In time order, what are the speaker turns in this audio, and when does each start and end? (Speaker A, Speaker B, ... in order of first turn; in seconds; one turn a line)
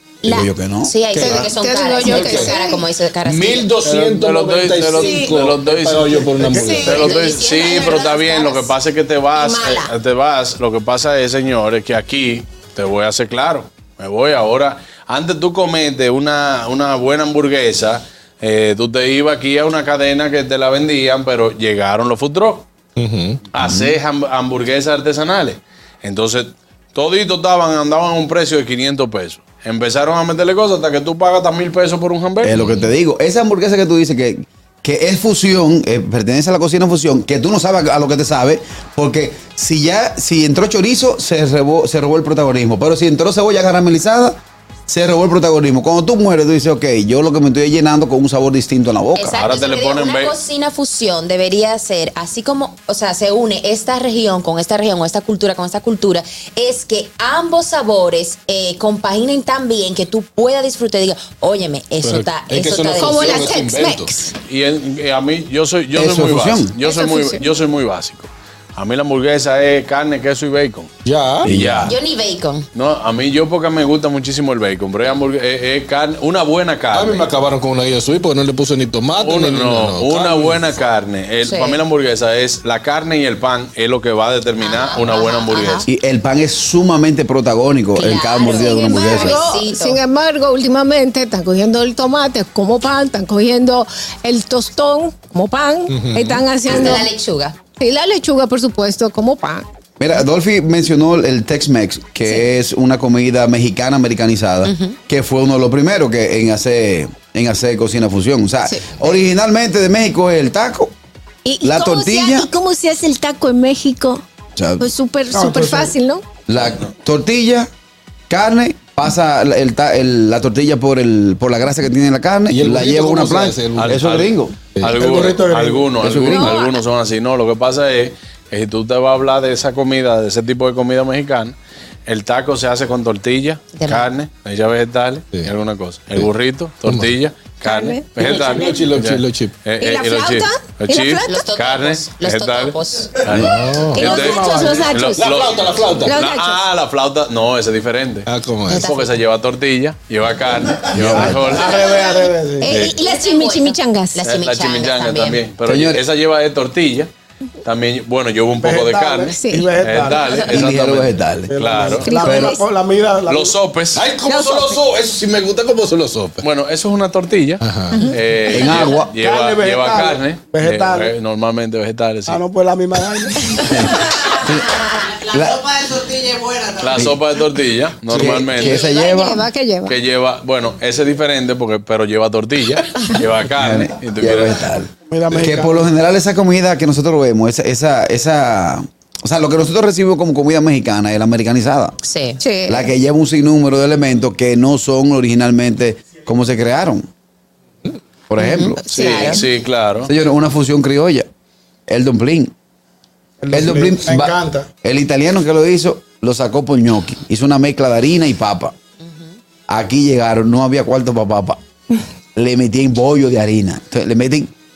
Speaker A: 0.2-3.8
Speaker B: 0.2-0.9
Speaker C: 1.1-1.4
Speaker D: 1.1-2.8
Speaker C: 2.0-2.6
Speaker C: 3.2-7.0
Speaker E: 3.8-22.6
Speaker F: 6.1-7.3
Speaker A: 7.0-8.7
Speaker A: 9.4-9.9
Speaker C: 23.0-23.4
Speaker E: 23.5-32.5
Speaker B: 23.5-24.0
Speaker B: 32.4-49.5
Speaker C: 32.5-32.9
Speaker A: 49.1-63.5
Speaker E: 49.4-50.4
Speaker C: 62.0-64.1
Speaker D: 63.0-64.3
Speaker E: 64.5-70.9
Speaker B: 65.9-66.7
Speaker D: 66.8-67.5
Speaker C: 71.0-71.6
Speaker E: 71.4-72.0
Speaker B: 71.4-71.9
Speaker A: 71.8-72.7
Speaker E: 72.7-77.3
Speaker C: 76.9-80.7
Speaker E: 79.1-85.8
Speaker A: 81.4-81.8
Speaker A: 84.6-85.9
Speaker B: 85.8-89.4
Speaker A: 87.9-90.0
Speaker D: 88.4-97.1
Speaker C: 95.9-96.4
Speaker A: 96.7-97.6
Speaker D: 97.8-99.6
Speaker B: 100.0-110.9
Speaker A: 104.6-105.0
Speaker D: 111.4-114.2
Speaker B: 111.6-112.5
Speaker B: 114.5-114.9
Speaker D: 114.8-116.2
Speaker F: 115.3-115.9
Speaker B: 116.5-117.7
Speaker E: 116.6-116.9
Speaker B: 118.3-124.5
Speaker C: 122.5-124.0
Speaker E: 123.7-131.6
Speaker C: 124.7-125.0
Speaker F: 124.9-126.0
Speaker B: 126.0-126.5
Speaker D: 126.2-126.8
Speaker E: 132.1-151.8
Speaker A: 133.7-134.1
Speaker C: 136.8-137.2
Speaker D: 137.6-138.8
Speaker C: 138.2-139.5
Speaker D: 139.8-141.4
Speaker A: 140.9-143.1
Speaker B: 143.3-143.5
Speaker C: 143.3-144.2
Speaker D: 143.9-146.6
Speaker F: 144.0-144.9
Speaker C: 145.1-146.2
Speaker C: 148.2-148.9
Speaker A: 148.6-149.2
Speaker B: 150.9-151.6
Speaker F: 151.1-152.7
Speaker A: 151.5-155.4
Speaker D: 152.6-154.2
Speaker E: 154.2-157.1
Speaker B: 155.7-156.0
Speaker E: 157.6-162.1
Speaker F: 158.6-160.4
Speaker D: 159.3-159.7
Speaker B: 160.5-162.6
Speaker F: 161.5-163.6
Speaker D: 161.9-162.6
Speaker E: 163.3-164.0
Speaker C: 163.9-166.5
Speaker D: 164.2-164.8
Speaker E: 166.4-172.4
Speaker C: 167.6-168.1
Speaker D: 167.9-168.2
Speaker B: 168.5-169.2
Speaker F: 169.2-171.1
Speaker F: 172.3-173.5
Speaker B: 173.6-175.7
Speaker E: 176.8-178.8
Speaker B: 178.1-179.5
Speaker D: 178.6-179.9
Speaker E: 179.8-184.7
Speaker B: 183.5-192.0
Speaker F: 185.1-185.9
Speaker A: 192.0-192.4
Speaker B: 192.7-197.1
Speaker B: 198.3-198.8
Speaker A: 198.4-199.4
Speaker E: 198.9-200.1
Speaker D: 199.0-199.3
Speaker B: 200.0-201.3
Speaker B: 201.9-202.5
Speaker F: 203.4-204.7
Speaker B: 203.5-208.7
Speaker A: 209.0-209.4
Speaker B: 209.7-211.6
Speaker B: 212.3-214.5